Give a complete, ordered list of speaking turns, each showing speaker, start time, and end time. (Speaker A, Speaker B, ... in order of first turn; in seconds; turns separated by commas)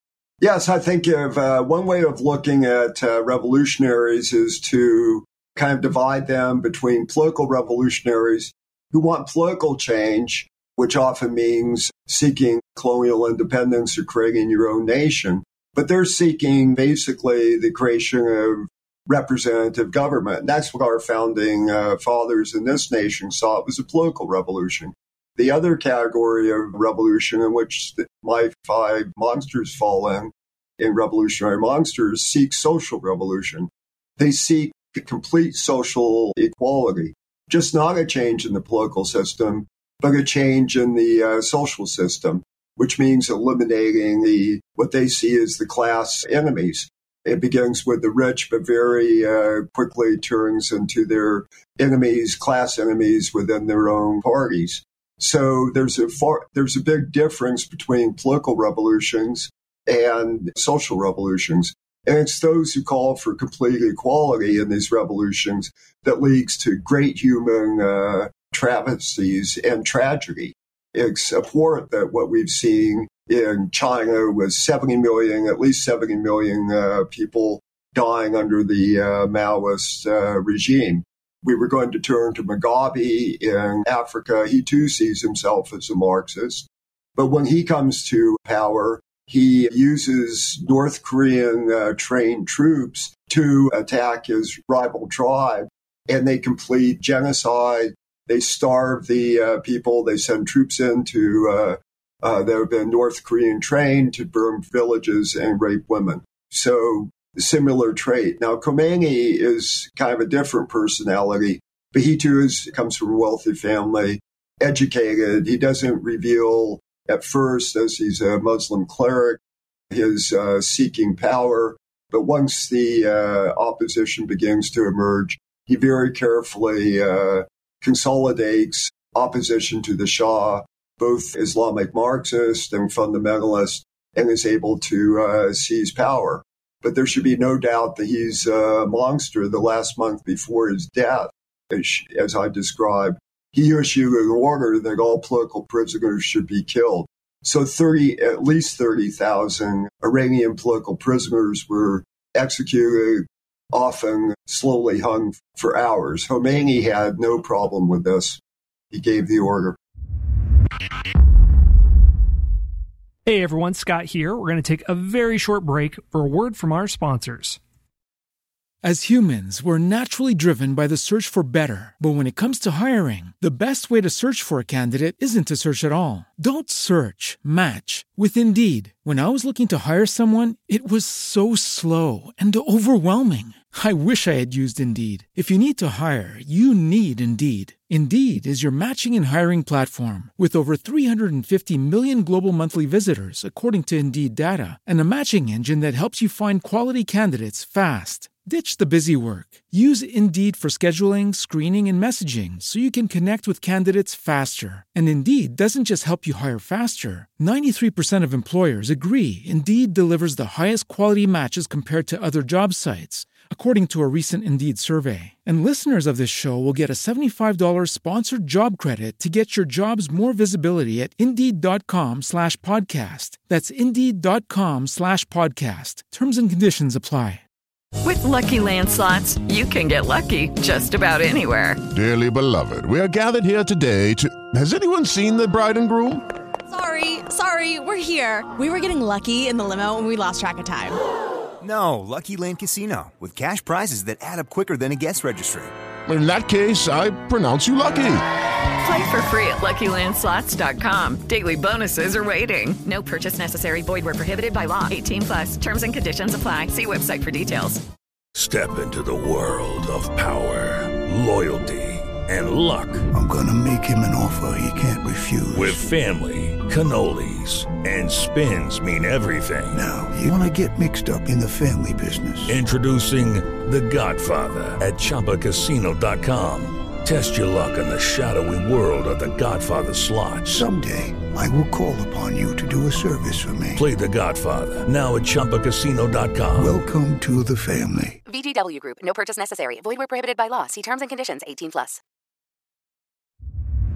Speaker A: 0.4-119.4, Speaker A: 119.9-158.4, Speaker A: 158.9-159.8, Speaker B: 163.3-167.6, Speaker C: 168.8-227.4, Speaker D: 228.0-231.8, Speaker E: 231.9-236.2, Speaker F: 236.7-241.0, Speaker G: 241.6-245.7, Speaker E: 246.1-248.2, Speaker D: 248.8-257.8, Speaker H: 258.4-263.1, Speaker I: 263.1-265.8, Speaker H: 265.5-269.8, Speaker I: 269.7-272.6, Speaker H: 272.5-280.6, Speaker I: 280.5-283.8, Speaker H: 283.8-286.8, Speaker I: 286.6-288.2, Speaker J: 288.3-292.0